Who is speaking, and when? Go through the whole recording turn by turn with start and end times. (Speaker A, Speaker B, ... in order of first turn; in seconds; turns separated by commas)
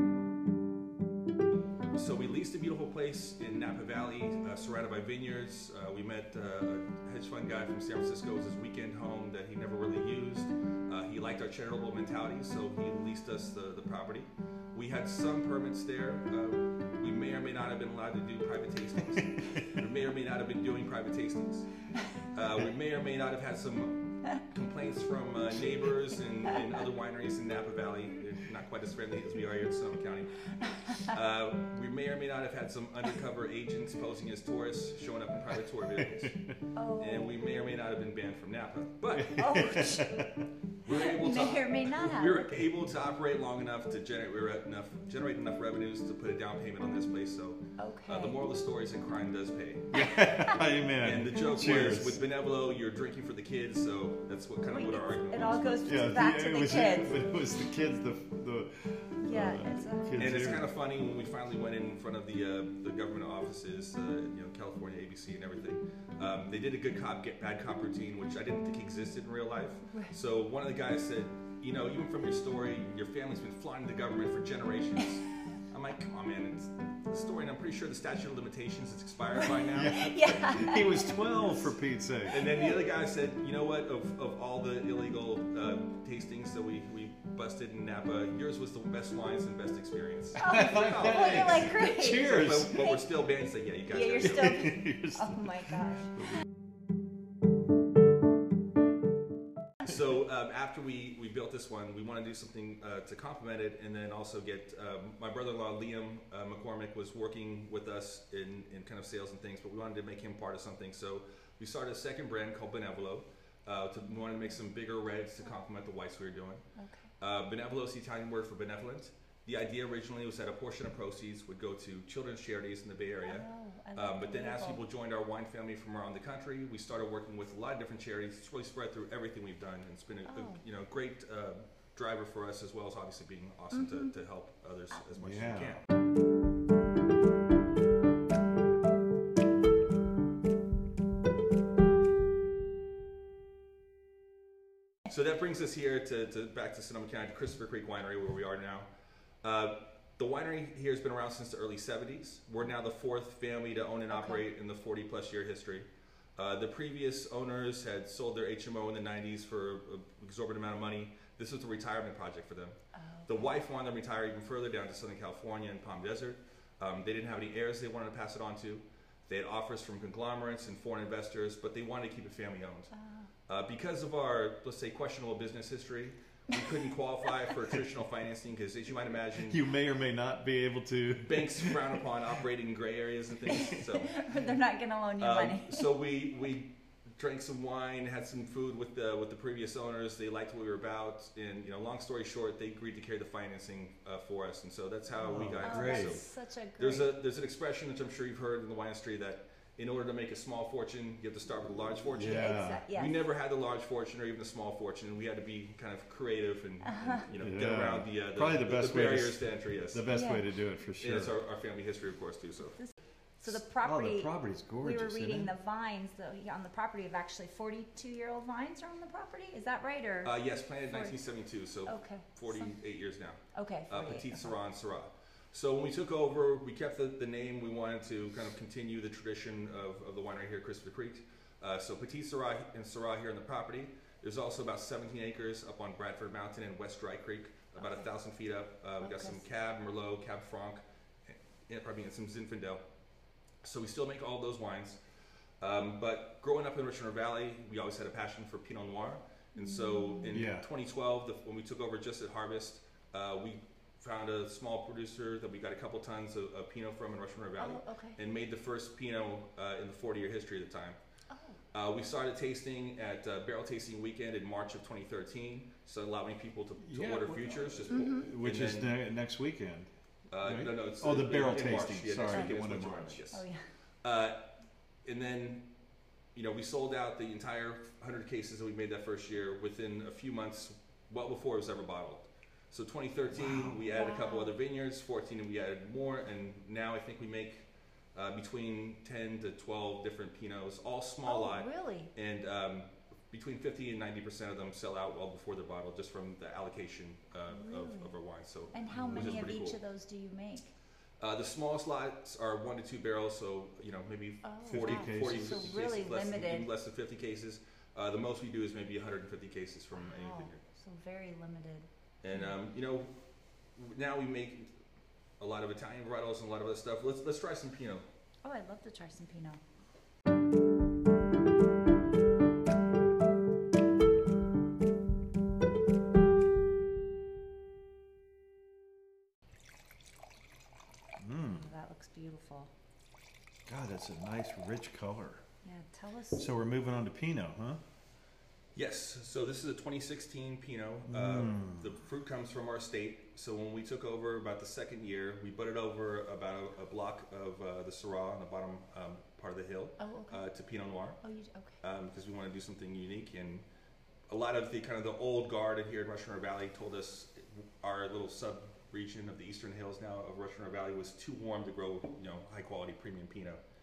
Speaker A: 1.9-40.0, Speaker B: 36.0-36.3, Speaker C: 36.7-37.4, Speaker B: 39.1-40.5, Speaker C: 39.3-40.3, Speaker A: 40.8-50.3, Speaker C: 40.9-42.6, Speaker C: 47.8-48.4, Speaker B: 49.9-52.2, Speaker C: 49.9-50.6, Speaker A: 51.0-56.0, Speaker C: 51.3-51.8, Speaker C: 54.7-57.1, Speaker B: 55.9-60.7, Speaker C: 59.2-60.2, Speaker A: 60.2-80.1, Speaker C: 79.3-81.5, Speaker B: 79.7-82.4, Speaker A: 82.3-94.8, Speaker C: 82.4-82.7, Speaker C: 90.4-93.0, Speaker B: 90.4-92.9, Speaker C: 93.9-96.2, Speaker B: 94.2-96.4, Speaker A: 99.8-116.6, Speaker C: 116.8-117.1, Speaker A: 117.2-135.8, Speaker C: 123.2-124.8, Speaker C: 130.2-130.6, Speaker C: 133.7-134.1, Speaker B: 135.2-135.8, Speaker A: 145.1-148.9, Speaker A: 149.4-172.9, Speaker C: 154.1-154.4, Speaker C: 162.9-163.5, Speaker C: 172.9-173.3, Speaker A: 173.5-179.6, Speaker B: 179.4-182.0, Speaker A: 181.2-184.2, Speaker C: 183.5-185.8, Speaker A: 185.2-210.1, Speaker B: 195.2-196.2, Speaker C: 195.6-197.1, Speaker B: 202.1-202.9, Speaker C: 202.1-203.2, Speaker C: 206.8-207.2, Speaker B: 207.4-211.3, Speaker C: 210.1-210.4, Speaker A: 211.0-212.8, Speaker C: 212.8-214.3, Speaker B: 213.8-215.5, Speaker C: 214.8-220.3, Speaker A: 220.2-242.8, Speaker C: 220.9-221.2, Speaker C: 221.9-222.7, Speaker C: 223.5-224.6, Speaker C: 237.8-238.1, Speaker C: 239.0-239.4, Speaker A: 243.6-245.0, Speaker A: 245.6-261.0, Speaker C: 249.6-250.3, Speaker B: 250.3-250.7, Speaker C: 257.6-258.2, Speaker C: 261.3-261.6, Speaker A: 261.7-269.0, Speaker B: 266.8-273.2, Speaker C: 267.9-268.3, Speaker A: 270.3-273.5, Speaker C: 273.3-273.6, Speaker A: 274.0-274.5, Speaker A: 275.0-275.7, Speaker A: 276.3-299.8, Speaker B: 283.4-283.7, Speaker C: 283.9-284.5, Speaker C: 291.2-292.1, Speaker C: 297.5-298.1, Speaker C: 298.7-300.7, Speaker B: 298.9-299.6, Speaker A: 301.2-310.6, Speaker C: 304.4-306.7, Speaker B: 304.6-305.6, Speaker C: 309.9-312.5, Speaker A: 312.2-313.2, Speaker A: 313.7-314.7, Speaker A: 315.4-318.0, Speaker C: 318.4-319.6, Speaker B: 331.2-331.7, Speaker C: 331.6-332.7, Speaker B: 333.6-335.4, Speaker C: 335.6-336.4, Speaker B: 336.4-337.8, Speaker A: 338.7-351.2, Speaker B: 341.1-341.9, Speaker C: 350.0-350.4, Speaker C: 351.2-351.7, Speaker A: 351.8-353.6, Speaker A: 354.3-363.6